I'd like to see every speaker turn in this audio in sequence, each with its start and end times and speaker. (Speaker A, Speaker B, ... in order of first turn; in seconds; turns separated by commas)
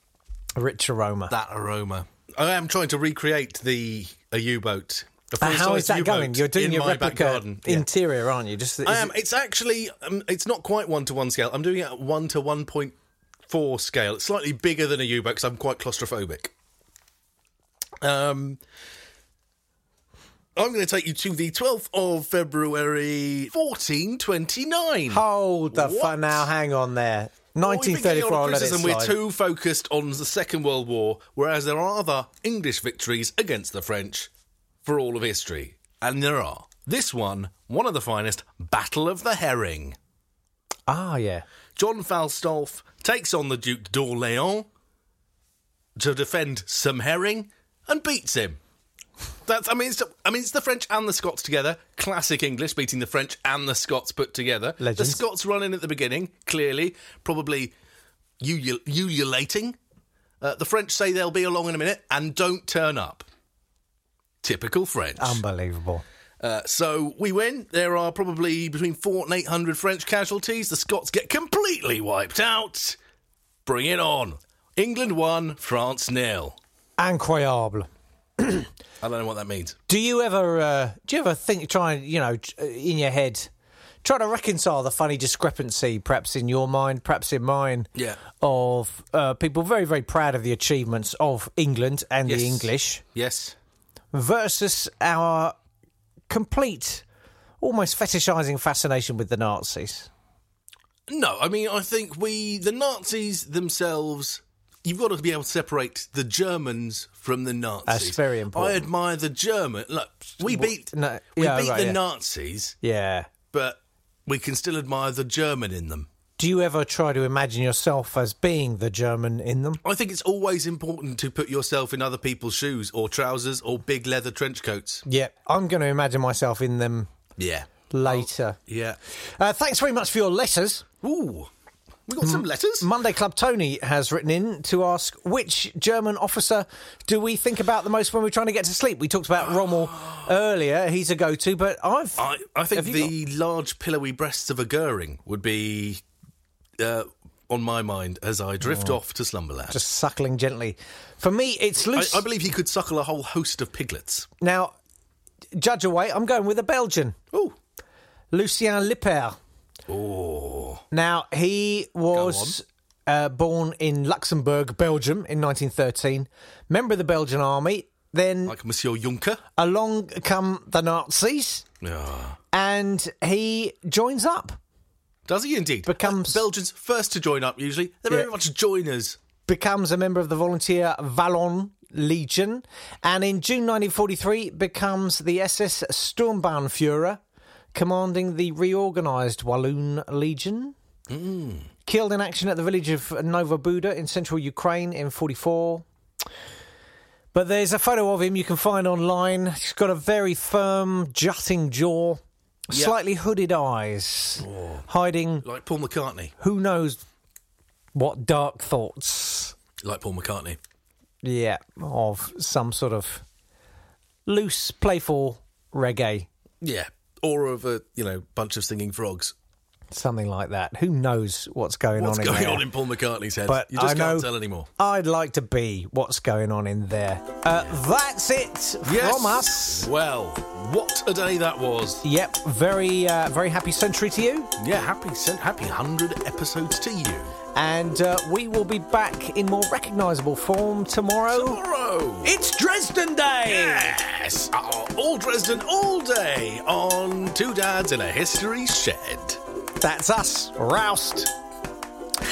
Speaker A: 0.6-1.3, Speaker B: 1.3-7.9, Speaker A: 5.4-9.1, Speaker B: 8.8-12.9, Speaker B: 13.5-16.5, Speaker B: 18.0-18.6, Speaker B: 20.6-26.4, Speaker A: 25.1-29.2, Speaker B: 27.6-34.3, Speaker B: 34.8-40.0, Speaker A: 40.9-41.4, Speaker B: 41.8-44.7, Speaker B: 46.0-48.6, Speaker B: 49.5-57.7, Speaker A: 54.8-55.2, Speaker B: 58.4-59.8, Speaker B: 60.4-63.2, Speaker B: 64.4-65.4, Speaker A: 65.2-66.0, Speaker B: 66.4-73.0, Speaker B: 73.6-76.6, Speaker A: 77.0-77.9, Speaker A: 78.4-78.7, Speaker B: 79.0-79.8, Speaker A: 79.9-83.5, Speaker A: 84.0-93.0, Speaker B: 88.0-88.2, Speaker B: 92.2-93.5, Speaker A: 94.1-95.5, Speaker A: 96.3-97.0, Speaker A: 97.6-100.1, Speaker B: 101.1-112.8, Speaker A: 107.8-108.8, Speaker A: 110.4-112.0, Speaker A: 112.8-113.3, Speaker B: 113.5-116.1, Speaker A: 116.4-119.8, Speaker B: 119.8-125.0, Speaker A: 125.0-127.1, Speaker B: 127.4-129.0, Speaker A: 127.9-128.6, Speaker A: 129.4-130.8, Speaker B: 131.0-131.5, Speaker B: 132.1-132.9, Speaker A: 132.2-143.1, Speaker B: 139.7-140.2, Speaker B: 142.2-146.0, Speaker B: 146.8-149.8, Speaker A: 149.7-152.2, Speaker B: 151.9-154.3, Speaker A: 154.4-154.7, Speaker A: 155.6-157.2, Speaker A: 158.3-159.3, Speaker B: 159.9-160.8, Speaker A: 160.9-168.6, Speaker B: 162.1-162.6, Speaker B: 168.4-169.4, Speaker A: 169.6-171.6, Speaker B: 171.8-172.4, Speaker A: 172.5-174.6, Speaker B: 175.3-179.2, Speaker A: 175.8-176.4, Speaker A: 179.5-187.2, Speaker A: 187.7-190.7, Speaker B: 191.1-191.7, Speaker A: 191.8-195.8, Speaker A: 197.3-205.4, Speaker B: 204.4-204.8, Speaker B: 205.4-206.3, Speaker A: 206.4-207.0, Speaker A: 207.9-209.5, Speaker B: 209.8-210.6, Speaker A: 211.2-213.2, Speaker A: 214.3-216.3, Speaker B: 216.6-219.3, Speaker A: 219.9-222.7, Speaker B: 221.9-224.7, Speaker A: 223.4-229.9, Speaker B: 228.8-232.0, Speaker A: 232.0-234.5, Speaker B: 234.6-237.3, Speaker A: 237.5-241.6, Speaker B: 241.3-242.3, Speaker A: 242.2-244.0, Speaker B: 243.4-249.4, Speaker A: 249.8-251.3